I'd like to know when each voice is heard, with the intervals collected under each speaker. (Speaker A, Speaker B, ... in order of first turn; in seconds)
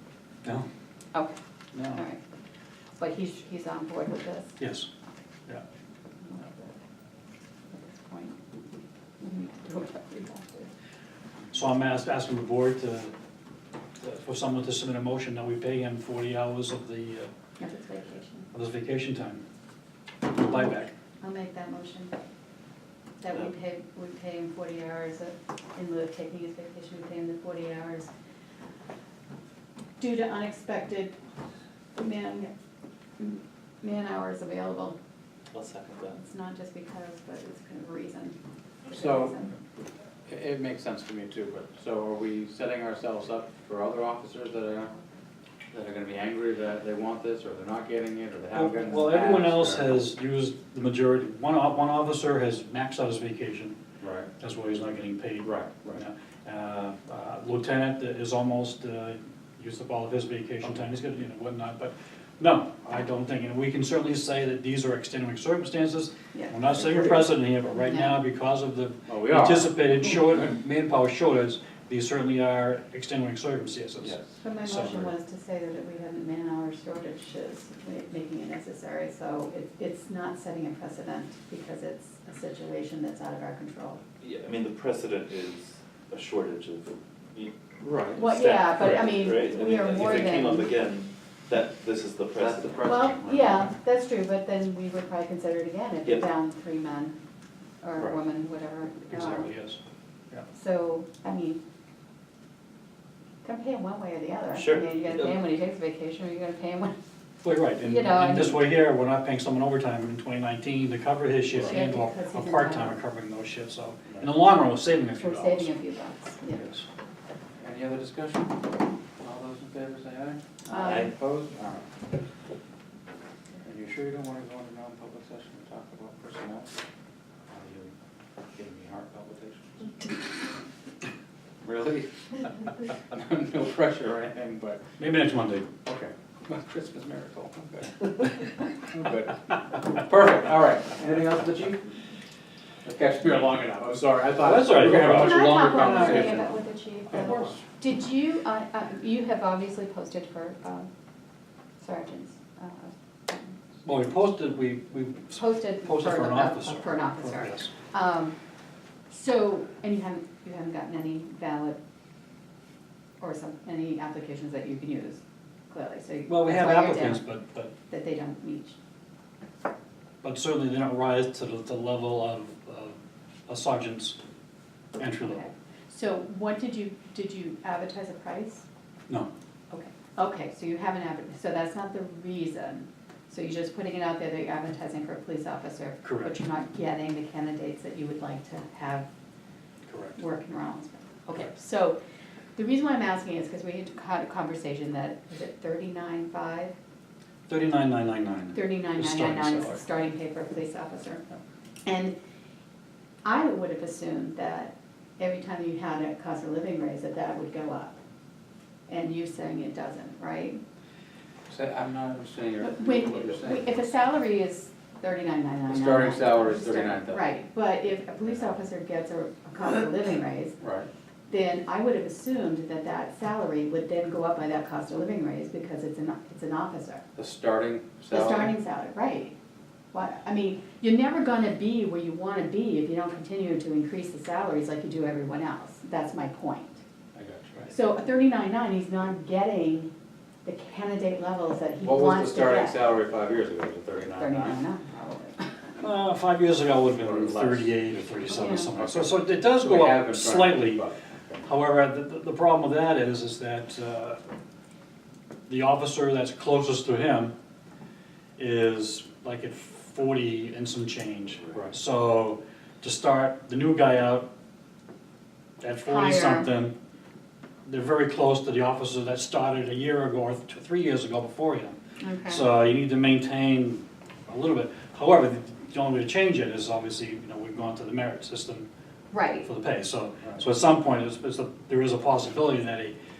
Speaker A: 1.7-2.0, 4.6-4.9, 11.5-13.1, 14.0-17.3, 18.5-19.4, 20.3-20.9, 48.5-53.8, 54.4-75.1, 99.1-99.8, 107.4-115.7, 116.5-116.8, 135.0-135.7, 144.4-146.5, 147.1-147.6, 153.8-157.7, 166.3-167.7, 170.2-174.2, 175.0-175.5, 186.0-186.3, 189.9-190.2, 197.5-199.8, 245.8-250.8, 251.4-254.2, 255.5-257.3, 258.4-264.3, 265.6-266.7, 267.6-271.7, 272.2-278.7, 279.4-282.9
Speaker B: 1.9-2.2, 3.0-4.6, 6.2-6.8, 7.7-8.4, 9.2-10.7, 17.6-18.5, 21.2-22.1, 23.2-28.1, 30.0-31.1, 31.9-32.5, 33.2-35.0, 36.1-39.5, 66.3-68.1, 74.4-84.0, 88.2-90.7, 92.8-97.2, 97.8-99.5, 100.5-101.6, 103.4-106.9, 107.8-108.7, 111.6-113.0, 115.2-116.7, 120.7-121.1, 145.1-150.9, 151.8-153.6, 155.4-158.3, 159.1-161.8, 163.2-167.2, 167.9-168.8, 175.2-178.7, 179.7-189.1, 190.2-192.0, 192.6-196.7, 198.5-201.2, 201.8-202.2, 203.2-208.0, 208.9-210.6, 212.6-220.6, 221.3-227.0, 228.1-229.3, 229.9-236.8, 237.7-239.9, 240.4-242.8, 244.1-245.7, 248.3-248.7, 265.8-266.5, 272.0-272.5, 279.1-279.5
Speaker C: 35.5-36.2, 84.2-93.6, 104.5-105.3, 120.7-121.1
Speaker D: 38.9-39.3, 40.3-44.9, 45.7-50.0, 54.0-54.3, 55.4-56.0, 69.1-70.5, 92.4-92.7, 117.6-118.7, 119.2-121.8, 123.6-126.7, 127.5-127.9, 128.5-129.7, 131.6-134.8, 135.8-141.9, 142.8-146.5, 147.3-147.5, 211.5-213.9, 215.7-217.2, 220.6-220.9, 227.2-228.5, 237.1-237.7, 241.8-244.6, 246.9-251.4